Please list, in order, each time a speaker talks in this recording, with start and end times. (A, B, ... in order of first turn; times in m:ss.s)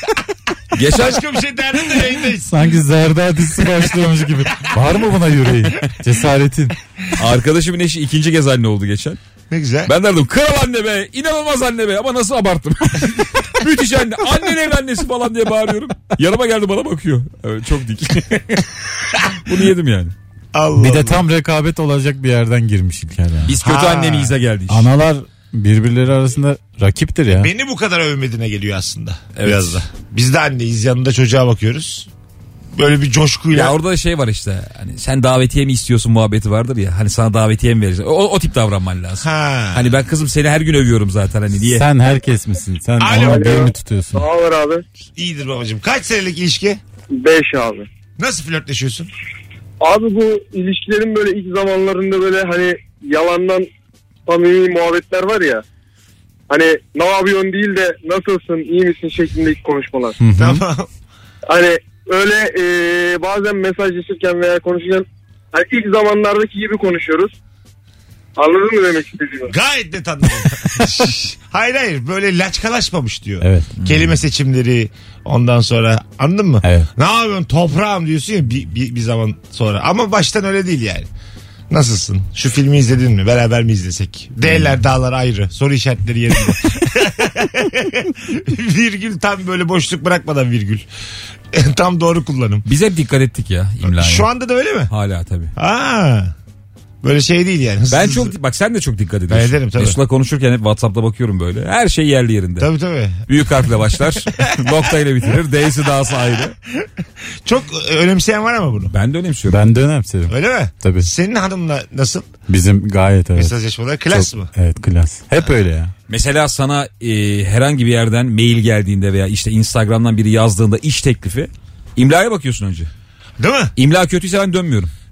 0:00.7-0:01.2 A
0:00.8-0:02.7 B
0:02.4-0:06.8 C
0:07.1-0:09.2 A
0:09.5-0:09.9 B
0:09.9-0:18.7 A
0:19.4-0:20.1 A
0:20.5-0:21.2 B
0:20.8-0:23.5 C
0:23.5-0:24.9 A
0:23.6-0:24.4 B
0:24.7-0:27.5 C
0:27.4-0:32.1 B
0:29.4-0:29.8 A
0:32.7-0:33.8 B
0:33.5-0:41.9 A
0:39.2-0:40.0 B
0:41.8-0:44.2 C
0:43.0-0:43.7 B
0:43.1-0:44.8 D
0:45.2-0:46.8 B
0:47.1-0:47.9 D
0:48.2-0:49.1 B
0:49.8-0:53.7 D
0:54.2-0:55.6 D
0:56.5-1:00.2 D
1:00.2-1:00.6 C
1:00.4-1:00.9 B
1:01.5-1:07.3 D
1:08.4-1:09.5 D
1:09.5-1:21.1 B
1:13.4-1:13.7 C
1:16.6-1:16.9 C
1:21.7-1:30.9 B
1:31.5-1:32.7 B
1:32.7-1:34.3 A
1:33.8-1:34.9 B
1:34.9-1:35.5 A
1:35.6-1:36.3 B
1:37.0-1:38.4 B
1:37.9-1:42.7 A
1:39.3-1:40.0 B
1:42.6-1:43.3 B
1:43.3-1:46.6 A
1:44.2-1:44.7 B
1:47.4-1:48.9 B
1:48.9-1:49.6 A
1:49.5-1:51.1 C
1:50.3-1:52.3 B
1:52.5-1:53.5 C
1:53.4-1:54.5 B
1:54.1-1:55.9 C
1:56.1-2:02.9 A
2:03.4-2:03.7 B
2:03.8-2:04.9 A